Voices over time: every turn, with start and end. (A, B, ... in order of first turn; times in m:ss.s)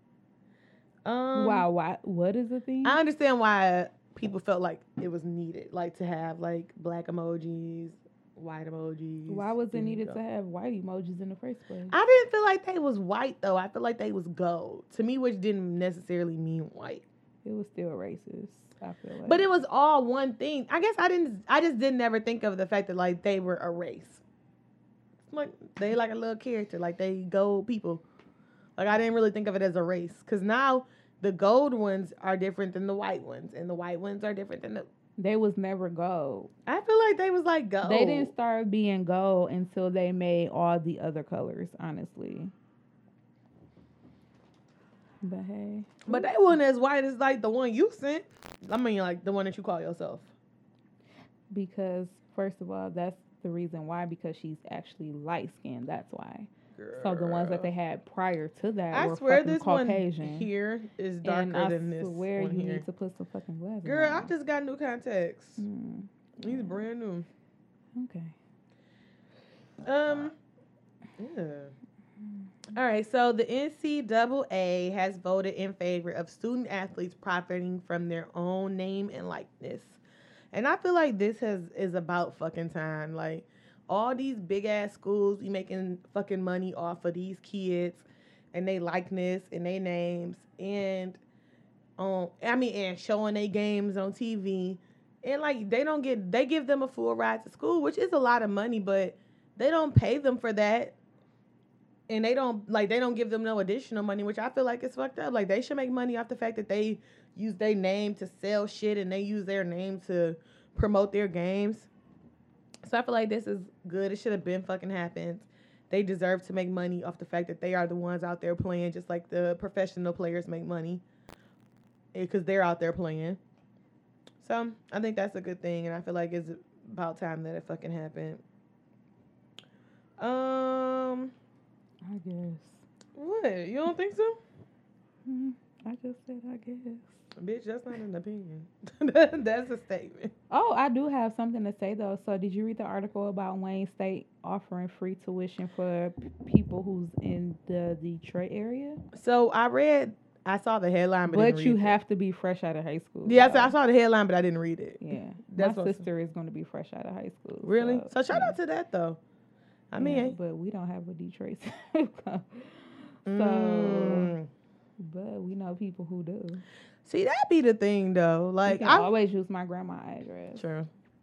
0:01.0-0:01.7 A
0:01.4-0:03.0 B
0:02.8-0:10.2 A
0:09.3-0:12.0 B
0:11.9-0:17.0 A
0:17.4-0:19.5 B
0:19.2-0:24.2 A
0:25.3-0:28.0 A
0:28.8-0:34.9 A
0:35.2-0:36.5 B
0:36.7-0:38.3 A
0:37.8-0:42.5 B
0:45.2-0:46.3 B
0:46.1-0:50.3 A
0:51.5-1:00.5 B
0:56.8-0:57.7 A
0:58.9-1:02.8 A
1:01.2-1:04.3 B
1:03.8-1:05.6 A
1:05.6-1:06.8 B
1:06.4-1:07.3 A
1:08.0-1:08.4 B
1:09.8-1:10.4 A
1:11.2-1:11.7 A
1:12.7-1:20.0 A
1:20.5-1:31.2 A
1:32.0-1:41.0 A
1:42.1-1:51.9 A
1:52.8-2:01.0 A
2:02.1-2:03.4 A
2:04.4-2:08.4 A
2:10.2-2:11.3 A
2:12.0-2:12.8 B
2:13.2-2:14.4 A
2:15.3-2:17.2 B
2:17.4-2:20.3 A
2:20.5-2:29.0 B
2:29.1-2:32.0 A
2:31.3-2:33.8 B
2:33.2-2:36.0 A
2:35.0-2:38.6 B
2:37.6-2:39.2 A
2:39.9-2:40.4 A
2:40.0-2:44.3 B
2:43.3-2:44.5 A
2:45.0-2:46.6 B
2:47.0-2:49.1 A
2:48.6-2:50.7 B
2:50.6-2:50.9 A